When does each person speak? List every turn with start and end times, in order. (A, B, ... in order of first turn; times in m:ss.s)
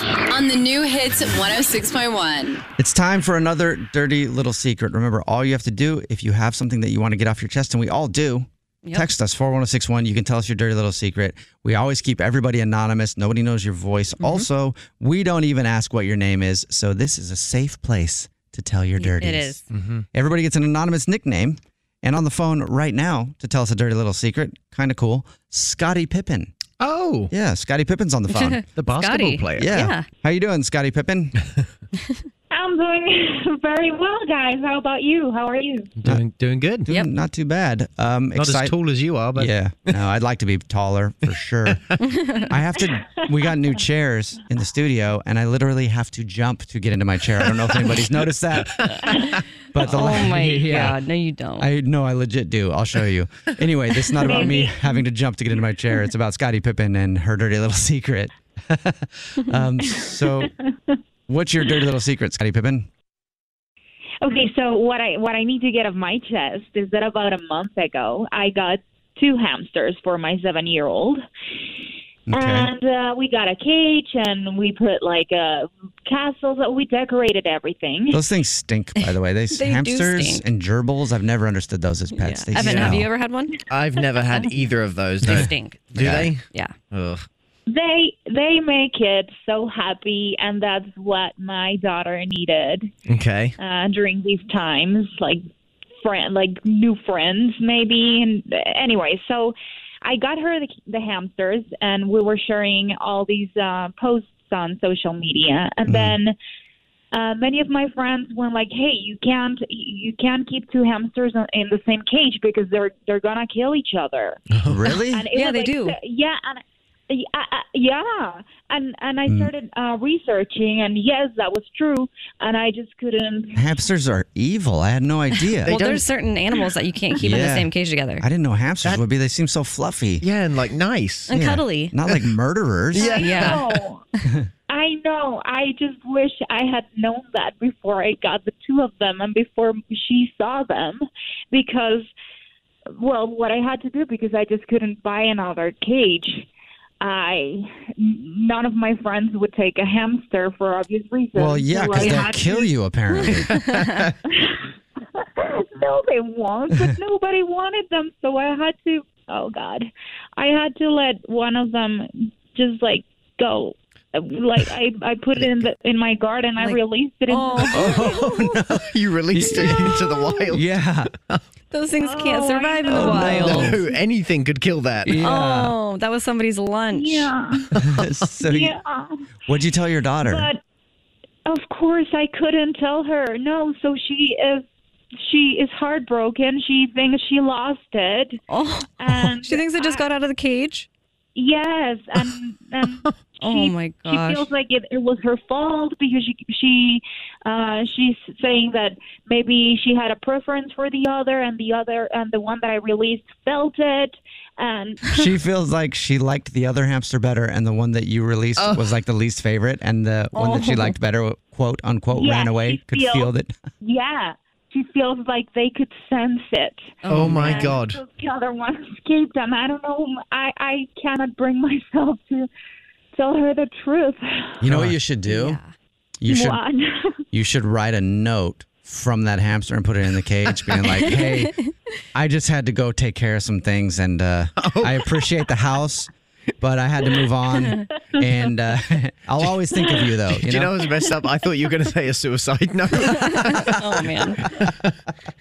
0:00.3-0:02.6 A
0:02.8-0:19.6 B
0:14.2-0:14.4 C
0:19.0-0:19.6 C
0:19.7-0:20.0 D
0:20.1-0:26.5 B
0:26.8-0:27.3 D
0:27.3-0:28.6 B
0:28.3-0:30.1 C
0:28.7-0:29.8 D
0:29.6-0:31.4 B
0:32.5-0:35.9 E
0:36.0-0:36.9 D
0:36.8-0:38.8 B
0:38.4-0:40.0 D
0:39.4-0:42.0 B
0:42.0-0:42.5 C
0:42.5-0:51.0 B
0:47.5-0:47.9 D
0:48.9-0:49.2 C
0:49.8-0:51.7 C
0:51.6-1:00.5 B
0:54.2-0:54.9 E
0:54.4-0:54.6 C
0:59.8-1:00.5 E
1:01.3-1:02.9 B
1:04.2-1:11.2 E
1:12.3-1:12.7 B
1:12.3-1:18.2 E
1:18.1-1:23.1 B
1:19.0-1:20.4 C
1:22.1-1:23.6 C
1:22.6-1:23.1 D
1:23.7-1:27.2 D
1:25.2-1:26.0 C
1:25.3-1:26.3 B
1:26.5-1:26.8 C
1:27.7-1:32.9 E
1:33.1-1:33.6 D
1:33.6-1:35.4 E
1:36.0-1:46.4 E
1:45.9-1:46.2 B
1:47.1-1:54.4 E
1:54.5-1:54.9 D
1:54.7-1:55.3 B
1:55.0-2:03.7 E
1:55.3-1:56.0 C
1:59.3-1:59.5 B
2:03.6-2:05.8 B
2:05.4-2:08.3 C
2:05.6-2:06.0 D
2:07.2-2:10.3 B
2:10.2-2:11.3 D
2:11.3-2:12.0 C
2:11.3-2:13.5 B
2:13.0-2:14.0 E
2:13.0-2:13.6 D
2:13.1-2:13.6 C
2:14.7-2:22.1 E
2:23.0-2:26.5 E
2:27.0-2:32.7 E
2:31.3-2:33.7 B
2:32.0-2:32.4 C
2:33.3-2:34.1 D
2:33.5-2:34.0 C
2:34.3-2:48.0 E
2:46.6-2:48.6 C
2:47.7-2:51.1 B
2:47.8-2:48.3 D
2:48.8-2:51.4 D
2:51.7-2:53.8 C
2:52.0-2:53.3 E
2:52.9-2:53.8 B
2:53.0-2:55.3 D
2:55.0-2:55.8 B
2:55.2-2:57.3 C
2:56.9-2:57.7 E
2:57.7-2:58.0 D
2:57.8-2:58.8 B
2:58.4-2:59.3 E
2:59.5-3:00.5 B
3:00.2-3:00.6 E
3:01.5-3:04.6 E
3:05.2-3:08.4 E
3:08.5-3:10.9 C
3:09.0-3:10.1 E
3:11.4-3:25.2 E
3:13.4-3:14.5 C
3:25.1-3:33.6 B
3:28.6-3:28.8 D
3:30.4-3:31.0 C
3:32.1-3:42.5 E
3:37.0-3:37.8 C
3:37.1-3:38.0 D
3:43.1-3:44.6 E
3:44.6-3:45.6 B
3:45.3-3:45.7 C
3:46.2-3:46.6 B
3:46.3-3:47.2 E
3:47.3-3:51.6 B
3:50.9-3:51.7 C
3:52.1-4:00.9 B
3:54.6-3:55.3 D
4:00.3-4:03.9 D
4:03.0-4:04.4 C
4:03.6-4:04.7 B
4:04.5-4:04.9 D